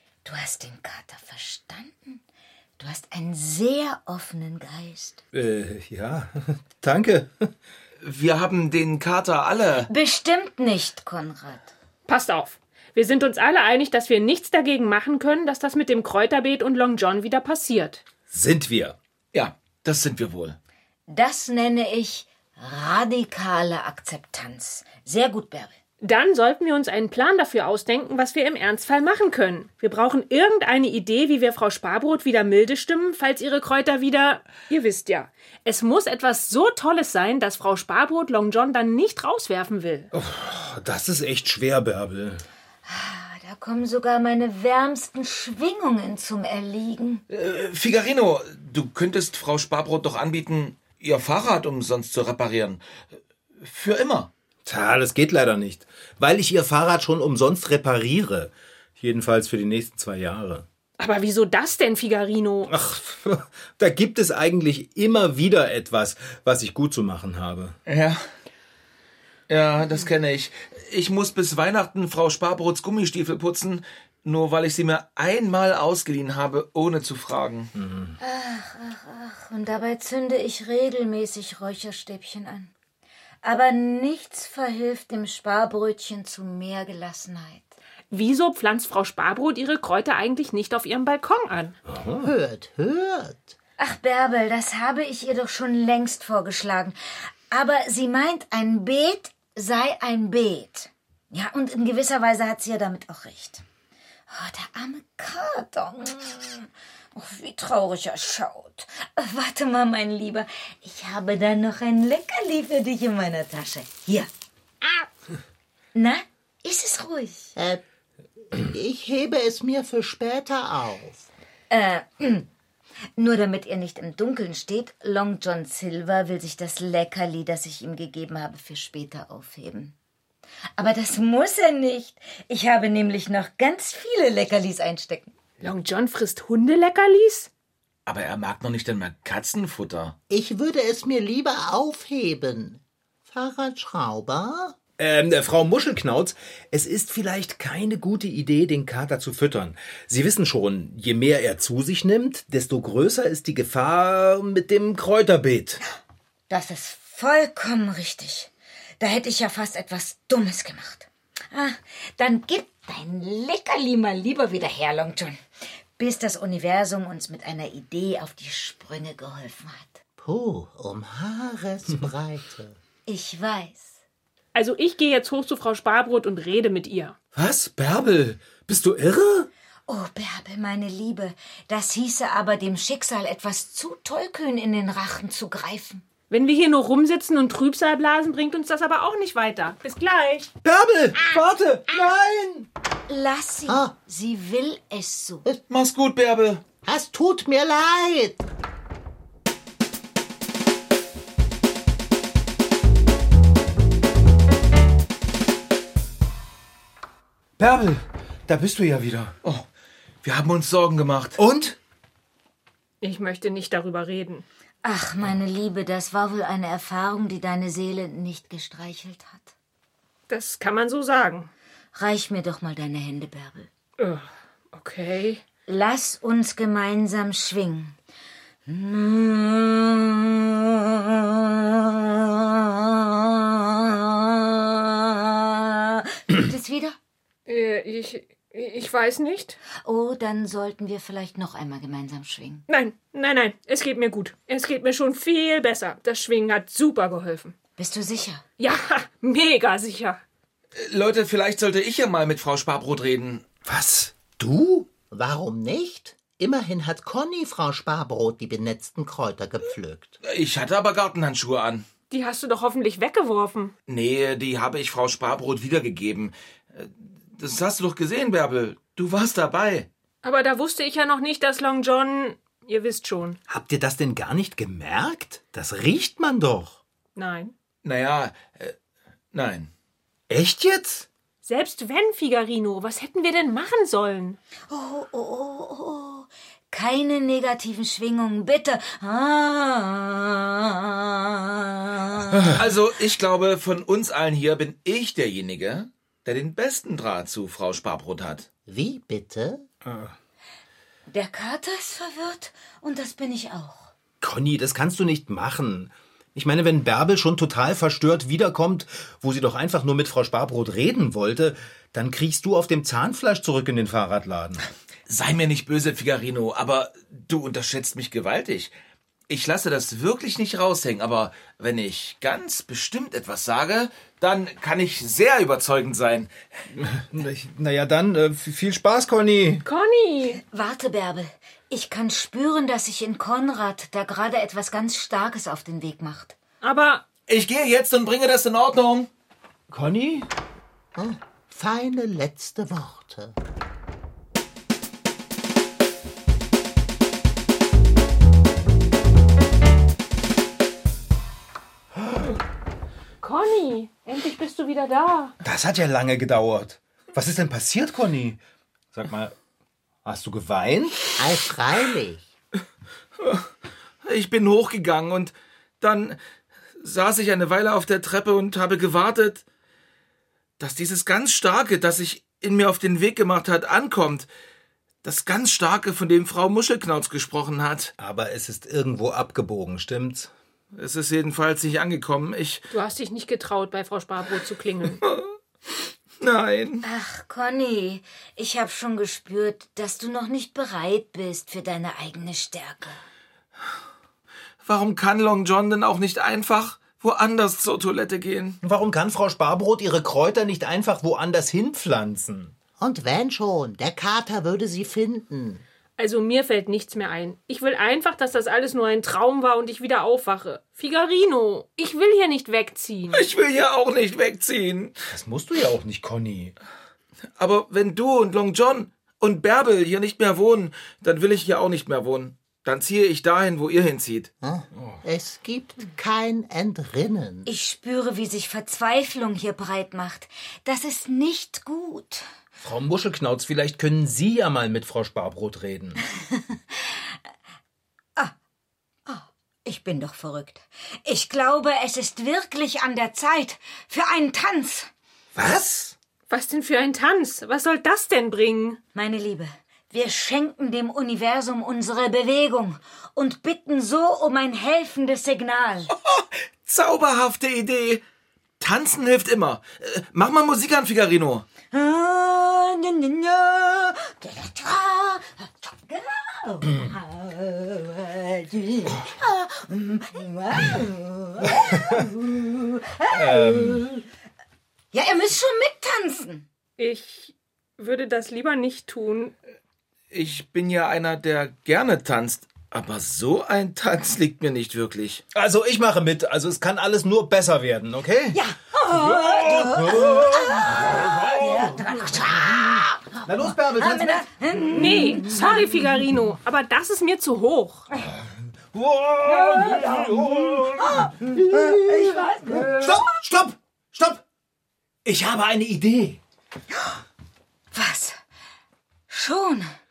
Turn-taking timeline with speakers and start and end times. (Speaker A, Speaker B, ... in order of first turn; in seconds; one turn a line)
Speaker A: 0.2-2.2
Speaker A: 2.8-5.2
Speaker B: 5.3-7.5
Speaker C: 8.0-9.9
Speaker A: 9.9-11.7
Speaker D: 12.1-18.0
Speaker B: 18.3-19.0
Speaker C: 19.3-20.6
Speaker A: 21.1-25.8
Speaker D: 26.0-40.1
Speaker B: 40.1-42.5
Speaker A: 42.9-47.2
Speaker C: 47.3-52.8
Speaker C: 53.6-54.3
Speaker B: 54.6-60.7
Speaker D: 61.0-62.7
Speaker B: 62.7-67.8
Speaker C: 67.9-68.2
Speaker C: 69.5-77.7
Speaker B: 77.8-78.2
Speaker A: 78.2-82.7
Speaker A: 83.4-87.8
Speaker D: 88.1-91.8
Speaker B: 91.9-92.3
Speaker E: 92.2-93.5
Speaker A: 93.8-97.0
Speaker A: 97.5-103.6
Speaker A: 104.3-114.3
Speaker A: 116.0-117.5
Speaker E: 117.6-117.8
Speaker E: 118.5-121.3
Speaker A: 121.7-122.5
Speaker A: 123.2-129.9
Speaker A: 130.8-135.3
Speaker D: 135.6-137.5
Speaker C: 138.1-140.2
Speaker E: 140.3-144.8
Speaker B: 145.0-155.8
Speaker A: 156.5-165.4
Speaker A: 166.0-170.0
Speaker E: 170.2-172.8
Speaker A: 173.1-174.0
Speaker D: 174.6-177.2
Speaker B: 177.3-179.5
Speaker A: 179.9-186.0
Speaker D: 186.3-190.5
Speaker B: 190.6-192.7
Speaker A: 193.1-195.4
Speaker C: 195.7-196.6
Speaker E: 196.8-198.4
Speaker B: 207.6-209.3
Speaker C: 210.2-211.4
Speaker B: 211.4-211.8
Speaker D: 213.0-214.4
Speaker A: 214.8-219.5
Speaker D: 220.3-221.5
Speaker A: 221.9-223.7
Speaker D: 224.0-225.4
Speaker A: 225.7-228.0
Speaker A: 228.7-237.0
Speaker D: 237.5-239.6
Speaker A: 239.8-242.7
Speaker D: 242.7-247.6
Speaker A: 247.8-248.4
Speaker D: 248.6-250.2
Speaker C: 250.8-253.4
Speaker B: 253.7-254.9
Speaker E: 255.1-260.2
Speaker C: 260.2-261.9
Speaker D: 262.1-263.7
Speaker C: 263.9-269.9
Speaker D: 270.2-273.4
Speaker B: 273.5-276.8
Speaker D: 277.2-277.5
Speaker C: 277.8-278.8
Speaker C: 279.3-279.7
Speaker B: 280.3-281.1
Speaker D: 281.4-284.4
Speaker A: 284.7-292.6
Speaker B: 292.3-292.6
Speaker C: 292.6-298.5
Speaker E: 298.7-299.6
Speaker B: 299.8-300.1
Speaker A: 301.1-303.9
Speaker B: 304.2-314.6
Speaker C: 315.1-318.7
Speaker C: 319.3-326.3
Speaker B: 326.7-329.6
Speaker D: 329.6-330.4
Speaker A: 330.5-336.4
Speaker D: 336.6-337.0
Speaker C: 337.3-339.1
Speaker B: 339.7-340.3
Speaker E: 341.0-343.4
Speaker D: 353.2-355.4
Speaker B: 355.4-358.4
Speaker B: 358.9-359.4
Speaker B: 360.1-361.1
Speaker E: 361.2-362.3
Speaker C: 364.1-366.2
Speaker C: 366.8-369.4
Speaker C: 370.6-374.3
Speaker C: 375.0-377.9
Speaker B: 378.0-380.3
Speaker C: 380.7-382.6
Speaker D: 382.7-385.0
Speaker C: 385.0-385.3
Speaker C: 386.2-386.8
Speaker A: 386.8-393.0
Speaker C: 394.6-398.6
Speaker B: 398.6-402.6
Speaker E: 402.8-405.6
Speaker D: 406.0-413.3
Speaker C: 413.1-414.9
Speaker B: 415.1-416.6
Speaker C: 417.4-424.3
Speaker E: 424.4-427.5
Speaker B: 424.8-425.0
Speaker A: 427.5-432.2
Speaker B: 432.6-436.0
Speaker A: 439.1-444.9
Speaker B: 445.4-445.9
Speaker D: 446.3-448.8
Speaker A: 448.9-455.9
Speaker C: 456.0-458.0
Speaker C: 458.6-461.5
Speaker A: 461.7-474.0
Speaker B: 473.1-473.9
Speaker A: 474.9-476.5
Speaker D: 476.8-479.3
Speaker C: 480.1-485.2
Speaker B: 485.3-494.3
Speaker A: 488.3-495.7
Speaker D: 494.7-497.9
Speaker B: 498.1-504.2
Speaker A: 499.3-502.9
Speaker B: 505.1-506.2
Speaker A: 507.7-508.2
Speaker A: 509.1-509.7